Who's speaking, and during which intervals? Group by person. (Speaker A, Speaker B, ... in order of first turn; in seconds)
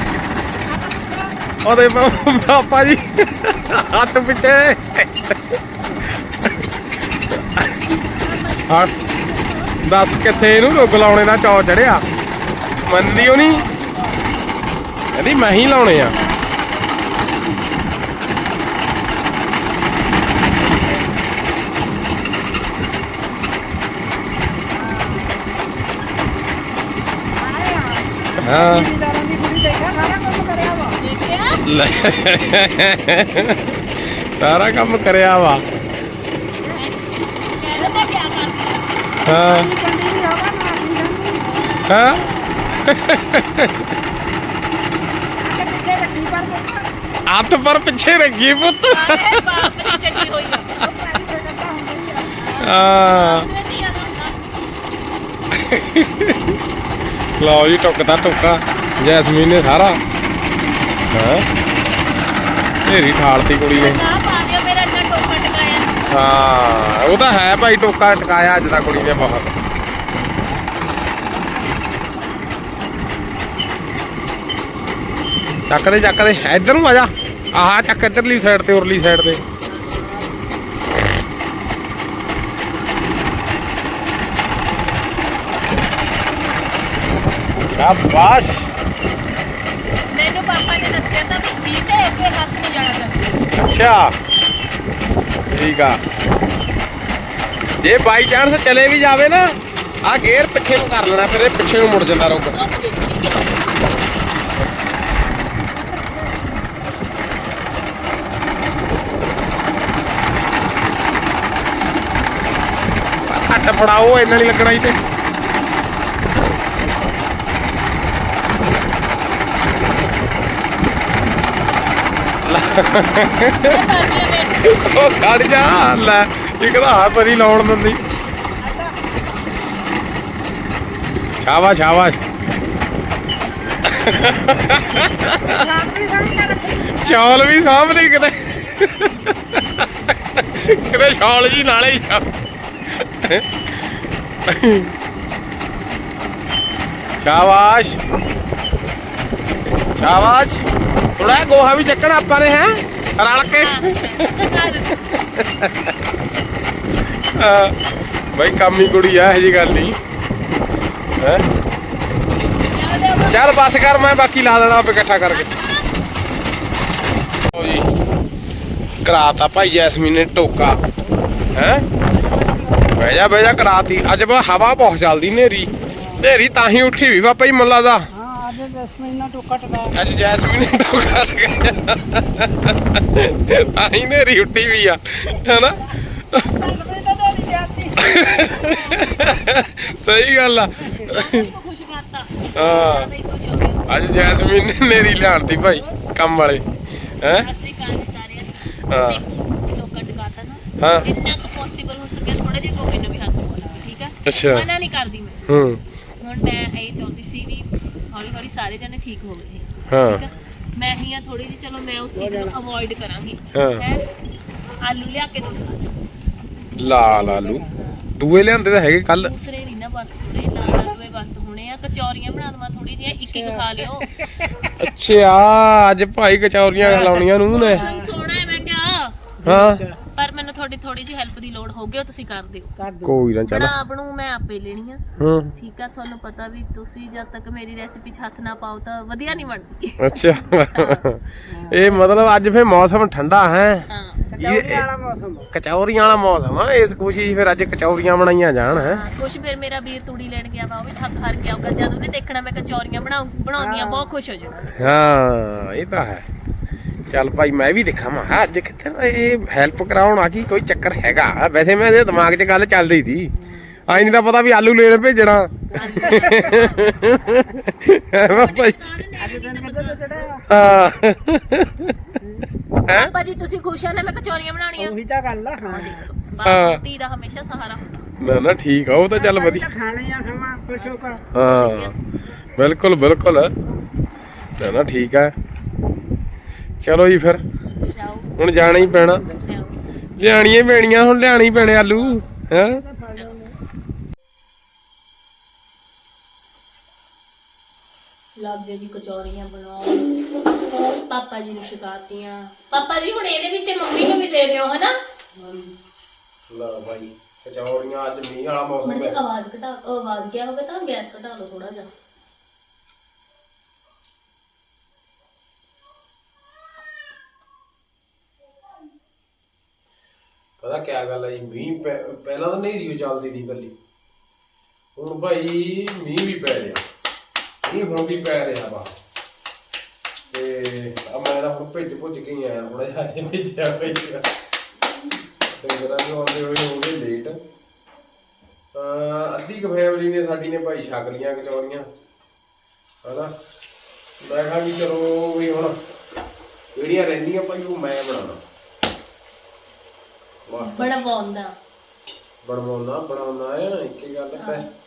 Speaker A: 0.7-1.2, 13.0-14.2, 16.0-17.4, 24.7-25.4, 27.4-30.9, 39.3-41.5, 45.3-46.9, 50.7-52.4, 105.9-106.3, 128.6-128.9, 135.4-137.0, 172.4-172.9, 175.9-176.2, 178.1-180.0, 186.4-189.1, 212.2-212.6, 217.3-217.7, 223.3-224.7, 226.8-228.1, 229.4-230.0, 232.8-233.2, 241.5-242.1, 244.2-245.5, 253.6-254.7, 263.4-264.1, 265.8-266.6, 269.2-270.4, 272.2-272.4, 274.8-276.1, 279.1-281.2, 292.7-293.5, 305.3-305.7
Speaker B: 1.6-6.7, 7.3-7.8, 8.7-8.9, 9.8-12.0, 12.8-13.7, 15.1-16.2, 28.4-28.9, 31.6-35.6, 39.2-39.7, 41.9-42.3, 42.8-43.9, 47.2-50.9, 52.6-53.5, 55.5-56.6, 57.4-60.0, 61.1-61.5, 62.8-64.0, 66.1-69.5, 75.7-79.4, 87.6-88.7, 93.5-94.2, 95.5-96.0, 97.8-102.6, 113.2-115.0, 122.4-123.8, 124.6-128.0, 131.4-132.2, 133.8-135.7, 136.9-142.3, 142.9-144.9, 147.1-148.0, 149.9-150.7, 151.2-156.0, 157.3-157.8, 158.3-160.0, 161.2-161.5, 163.2-165.5, 167.5-167.9, 169.0-170.8, 171.5-171.9, 173.0-178.1, 179.9-186.6, 188.0-191.5, 192.6-193.1, 193.9-197.5, 198.9-199.2, 200.8-201.1, 204.2-204.7, 205.5-205.8, 209.9-210.2, 213.5-213.8, 216.8-217.7, 218.2-219.3, 224.8-227.9, 229.4-229.8, 233.0-233.7, 235.2-235.6, 240.0-244.9, 245.5-249.0, 254.7-256.3, 257.1-268.8, 270.5-271.9, 272.9-273.1, 276.4-276.8, 278.2-279.7, 281.3-281.9, 282.5-283.5, 284.6-285.3, 286.8-287.4, 288.4-289.2, 290.2-292.8, 306.5-309.2, 320.6-323.8, 324.9-326.8, 327.6-328.9, 330.3-334.3, 335.4-337.4, 338.7-341.9, 343.0-343.3, 344.2-345.8, 346.8-348.4, 350.5-351.0, 352.4-354.6
Speaker C: 8.0-11.1, 31.0-31.7, 36.7-39.0, 41.4-43.2, 48.9-50.8, 52.4-54.4, 63.7-66.0, 79.7-80.2, 90.1-93.4, 102.5-103.6, 123.6-125.0, 137.4-139.3, 153.5-155.2, 162.7-163.5, 165.3-165.9, 191.0-194.2, 197.3-205.5, 206.2-214.1, 214.8-216.0, 216.8-218.1, 219.1-224.2, 227.5-229.2, 230.1-232.7, 233.5-235.0, 235.6-241.1, 243.9-244.2, 248.7-254.8, 265.8-266.9, 268.2-270.2, 272.9-274.9, 275.6-278.1, 280.7-281.9, 287.8-289.8, 291.5-292.2, 293.1-293.4, 298.4-300.1, 301.0-304.9, 308.8-311.9, 350.6-351.6, 354.3-354.6